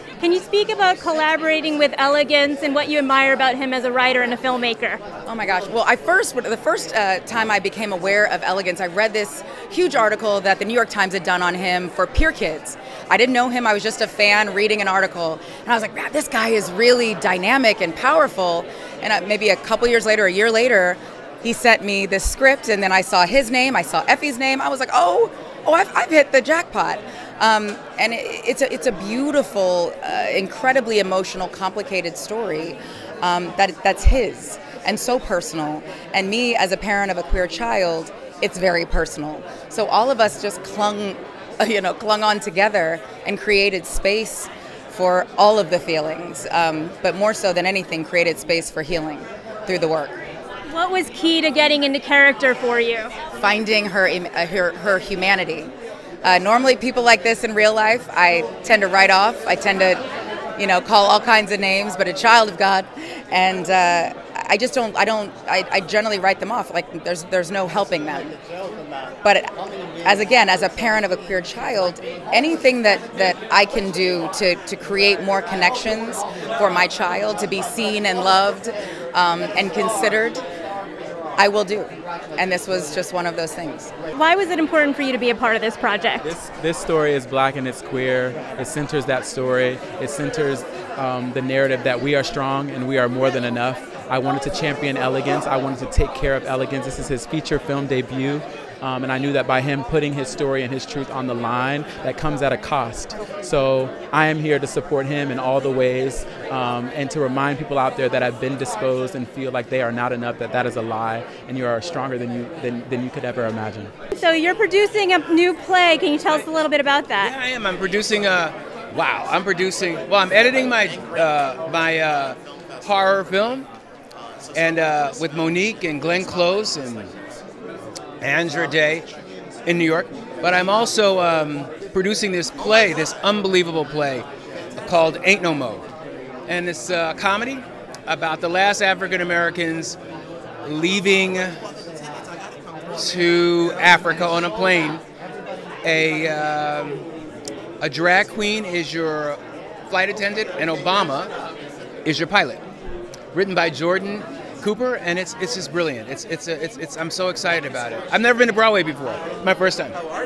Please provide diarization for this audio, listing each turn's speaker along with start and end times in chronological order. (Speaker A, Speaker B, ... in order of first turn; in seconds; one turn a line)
Speaker A: 0.2-5.0
Speaker B: 5.2-50.2
Speaker A: 50.7-53.1
Speaker B: 53.4-55.7
Speaker B: 56.2-60.0
Speaker B: 60.6-68.3
Speaker B: 69.2-69.5
Speaker B: 70.0-80.4
Speaker B: 81.4-83.9
Speaker A: 84.1-86.3
Speaker C: 86.2-113.9
Speaker A: 114.2-117.3
Speaker D: 117.2-119.5
Speaker D: 120.0-122.3
Speaker D: 124.6-126.9
Speaker D: 129.8-134.2
Speaker D: 134.9-135.8
Speaker D: 136.5-137.4
Speaker D: 138.1-139.9
Speaker D: 140.7-141.1
Speaker D: 143.5-145.0
Speaker D: 145.9-146.9
Speaker D: 147.8-149.3
Speaker D: 149.9-150.2
Speaker D: 150.7-151.0
Speaker D: 153.3-154.1
Speaker D: 154.6-157.3
Speaker D: 158.2-158.6
Speaker D: 159.3-159.7